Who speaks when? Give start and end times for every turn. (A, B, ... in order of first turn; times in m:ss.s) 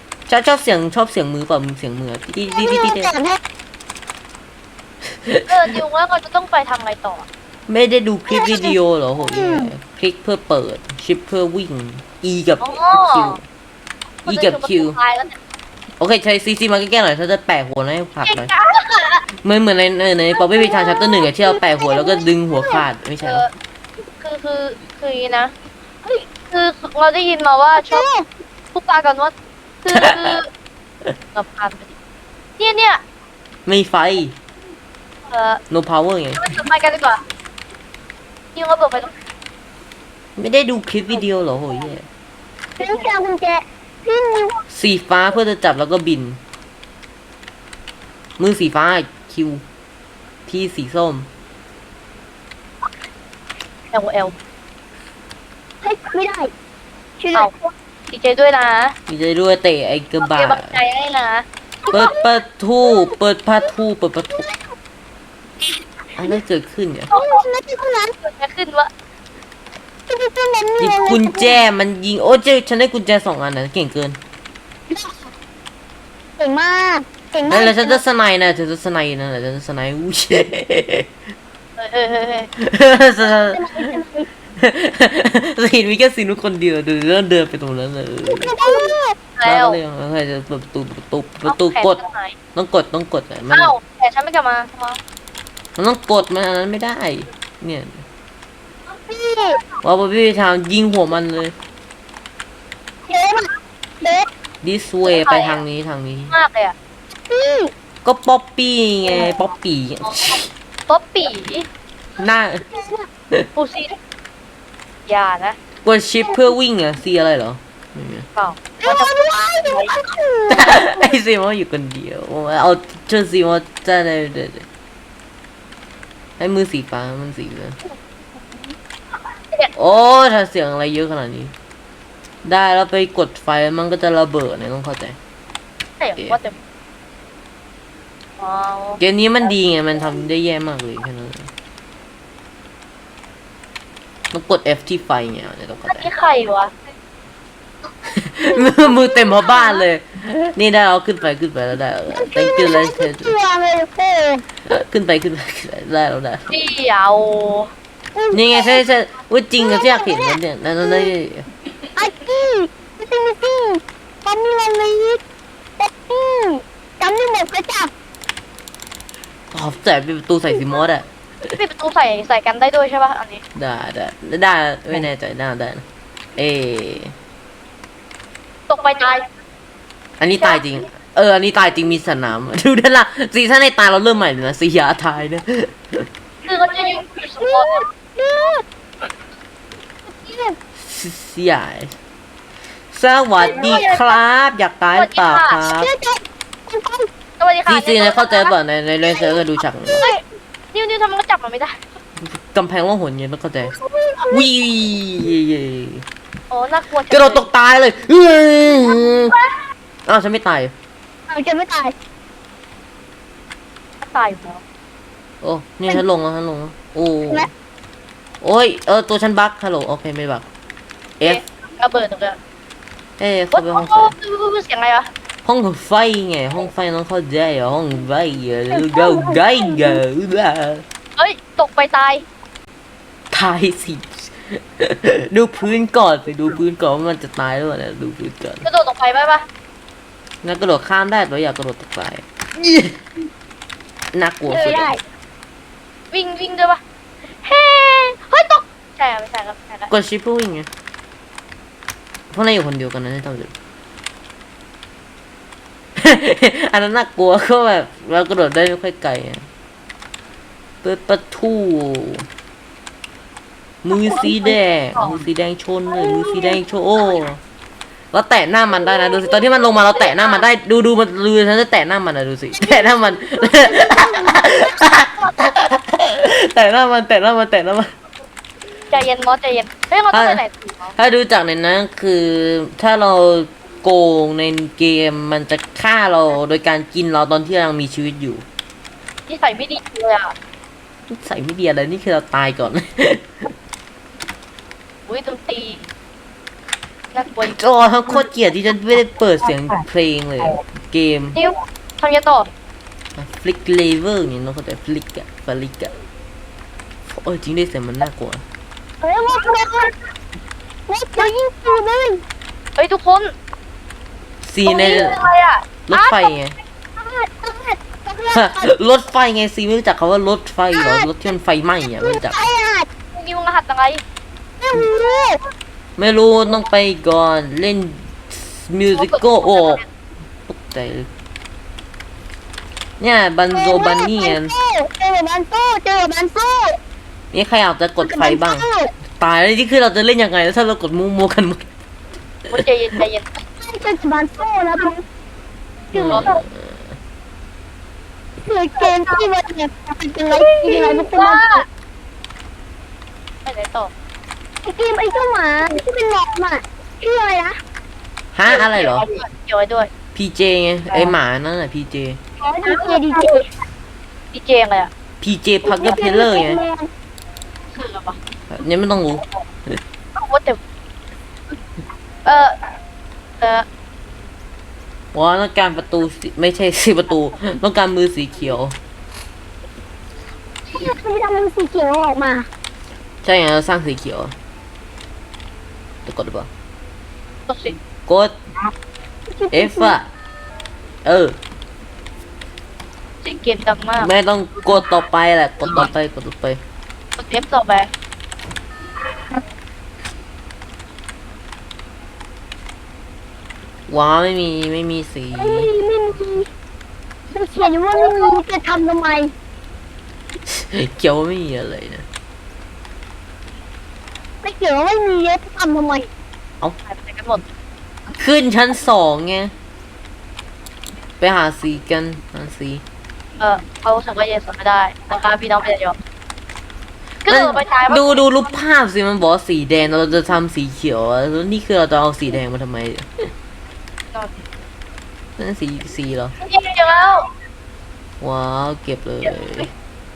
0:00.3-0:03.1 A
0:02.5-0:03.4 B
0:05.1-0:05.8 A
0:05.5-0:07.3 C
0:07.7-0:13.4 A
0:08.3-0:08.8 B
0:09.3-0:09.7 B
0:12.6-0:13.4 C
0:14.2-0:15.4 C
0:14.3-0:15.0 A
0:16.0-0:18.5 A
0:18.2-0:19.2 C
0:19.4-0:23.4 A
0:20.5-0:22.8 B
0:23.2-0:23.5 C
0:24.2-0:25.5 C
0:26.5-0:28.0 C
0:27.8-0:28.2 B
0:28.7-0:29.3 C
0:29.8-0:30.5 C
0:29.9-0:30.4 A
0:31.3-0:31.9 C
0:32.6-0:33.0 C
0:33.6-0:34.3 A
0:35.3-0:35.6 C
0:35.7-0:36.4 A
0:36.4-0:37.2 C
0:38.5-0:39.1 C
0:40.4-0:42.0 A
0:42.8-0:44.6 B
0:44.7-0:46.4 A
0:48.4-0:49.6 A
0:50.5-0:51.3 A
0:53.9-0:54.4 C
0:55.8-0:56.5 B
0:57.2-0:57.5 B
0:58.1-0:58.9 C
0:59.1-1:00.8 A
1:00.2-1:01.4 C
1:01.8-1:02.3 B
1:01.9-1:04.4 A
1:02.8-1:03.7 B
1:04.3-1:04.7 B
1:06.2-1:07.1 A
1:07.1-1:07.4 C
1:07.1-1:08.1 B
1:08.2-1:08.9 C
1:10.1-1:11.6 B
1:10.8-1:14.2 A
1:14.9-1:15.3 B
1:16.4-1:18.0 B
1:17.5-1:21.1 A
1:21.8-1:22.5 C
1:22.6-1:24.0 A
1:23.2-1:24.3 B
1:24.6-1:28.6 A
1:28.3-1:29.2 B
1:29.4-1:29.8 C
1:29.4-1:32.0 A
1:31.4-1:32.4 C
1:32.5-1:33.7 A
1:33.5-1:35.0 C
1:35.8-1:38.0 A
1:39.1-1:39.6 B
1:39.8-1:41.5 A
1:43.1-1:44.3 B
1:44.6-1:46.3 A
1:45.0-1:45.6 C
1:46.3-1:46.7 C
1:47.2-1:47.7 B
1:48.0-1:50.5 A
1:50.0-1:51.7 C
1:52.2-1:52.6 A
1:52.7-1:53.1 B
1:53.6-1:53.9 C
1:55.1-1:55.6 C
1:55.8-1:58.2 A
1:58.4-1:59.1 C
1:58.8-2:01.0 B
1:59.6-1:59.9 C
2:00.5-2:04.6 A
2:06.4-2:07.8 A
2:09.8-2:11.5 A
2:12.4-2:15.2 A
2:16.0-2:16.6 C
2:18.4-2:19.0 C
2:19.0-2:21.5 A
2:24.3-2:26.1 A
2:25.9-2:26.7 C
2:28.1-2:33.4 A
2:28.5-2:29.8 B
2:32.1-2:34.4 B
2:34.7-2:36.5 A
2:36.5-2:37.7 C
2:38.1-2:38.8 B
2:38.3-2:41.5 A
2:39.6-2:41.1 B
2:41.9-2:45.2 B
2:45.8-2:47.9 B
2:49.5-2:51.5 A
2:51.6-2:53.4 C
2:53.5-2:55.8 A
2:56.4-2:57.1 A
2:58.7-2:59.3 C
3:00.2-3:06.1 A
3:06.4-3:07.8 C
3:07.4-3:08.6 B
3:10.1-3:10.6 B
3:10.8-3:11.9 A
3:12.9-3:15.9 A
3:13.4-3:14.1 C
3:13.5-3:13.9 B
3:14.9-3:15.6 C
3:15.7-3:17.1 B
3:17.4-3:18.5 C
3:17.7-3:20.0 A
3:20.7-3:21.8 C
3:22.2-3:23.7 A
3:23.7-3:24.5 B
3:24.3-3:26.0 A
3:26.5-3:27.5 C
3:27.1-3:29.4 A
3:30.0-3:30.7 A
3:31.3-3:31.9 B
3:34.0-3:34.6 C
3:35.4-3:37.5 A
3:38.4-3:40.4 A
3:41.2-3:42.4 C
3:43.2-3:44.1 A
3:43.5-3:45.1 C
3:45.4-3:50.8 A
3:48.7-3:50.0 B
3:51.2-3:52.2 C
3:53.3-3:58.6 A
3:58.6-3:59.4 C
4:00.4-4:03.0 A
4:04.1-4:04.9 A
4:04.5-4:05.0 B
4:06.1-4:06.8 C
4:07.4-4:09.9 C
4:09.9-4:10.7 A
4:12.3-4:13.5 A
4:16.0-4:19.4 A
4:20.8-4:22.3 A
4:23.8-4:27.4 A
4:24.0-4:25.2 C
4:25.9-4:26.6 B
4:28.1-4:37.9 A
4:29.9-4:30.4 C
4:32.5-4:34.7 B
4:38.9-4:40.9 C
4:40.1-4:40.4 A
4:41.0-4:48.4 A
4:49.3-4:50.3 C
4:51.1-4:53.3 A
4:55.1-4:55.8 C
4:57.1-4:57.6 C
4:57.4-5:01.4 A
5:01.3-5:02.5 C
5:03.2-5:05.9 A
5:07.1-5:08.4 A
5:09.0-5:09.9 B
5:10.9-5:12.2 B
5:12.8-5:13.3 C
5:14.4-5:15.3 A
5:14.6-5:16.3 C
5:15.9-5:16.5 A
5:17.0-5:18.7 B
5:18.3-5:22.4 A
5:20.7-5:21.1 B
5:22.0-5:22.9 B
5:23.1-5:24.0 C
5:24.6-5:25.4 B
5:26.0-5:29.8 A
5:28.9-5:29.8 C
5:30.5-5:31.1 A
5:33.0-5:34.5 A
5:33.5-5:36.8 B
5:37.3-5:38.6 A
5:38.0-5:38.9 B
5:39.2-5:41.6 A
5:42.5-5:43.3 C
5:43.6-5:45.0 B
5:45.9-5:46.4 B
5:45.9-5:46.8 A
5:46.1-5:46.3 C
5:48.4-5:51.6 B
5:48.8-5:49.3 C
5:50.3-5:51.6 C
5:53.4-5:53.9 C
5:54.6-5:57.6 B
5:58.3-5:59.0 A
5:58.5-5:59.9 C
6:00.1-6:02.2 A
6:02.4-6:03.4 B
6:02.7-6:03.1 C
6:04.3-6:04.9 C
6:05.2-6:06.6 A
6:05.6-6:06.9 B
6:07.7-6:08.2 C
6:08.5-6:09.8 A
6:10.2-6:10.6 C
6:12.2-6:12.5 C
6:13.4-6:13.6 C
6:15.1-6:18.7 A
6:20.7-6:22.5 B
6:23.2-6:24.3 A
6:26.0-6:26.5 A
6:27.5-6:27.8 C
6:28.1-6:28.3 A
6:29.3-6:30.0 B
6:29.5-6:30.1 A
6:31.0-6:31.4 A
6:33.2-6:34.1 C
6:34.0-6:36.6 A
6:37.2-6:37.9 C
6:43.9-6:45.7 A
6:45.4-6:46.5 B
6:47.3-6:49.3 B
6:47.6-6:48.3 C
6:50.4-6:52.0 A
6:54.4-6:56.1 B
6:56.9-6:57.4 C
6:58.2-6:59.5 A
7:01.2-7:02.8 A
7:03.4-7:06.0 C
7:07.2-7:08.5 C
7:07.3-7:13.2 A
7:14.1-7:14.4 C
7:15.4-7:16.3 A
7:16.4-7:17.3 C
7:18.2-7:19.7 A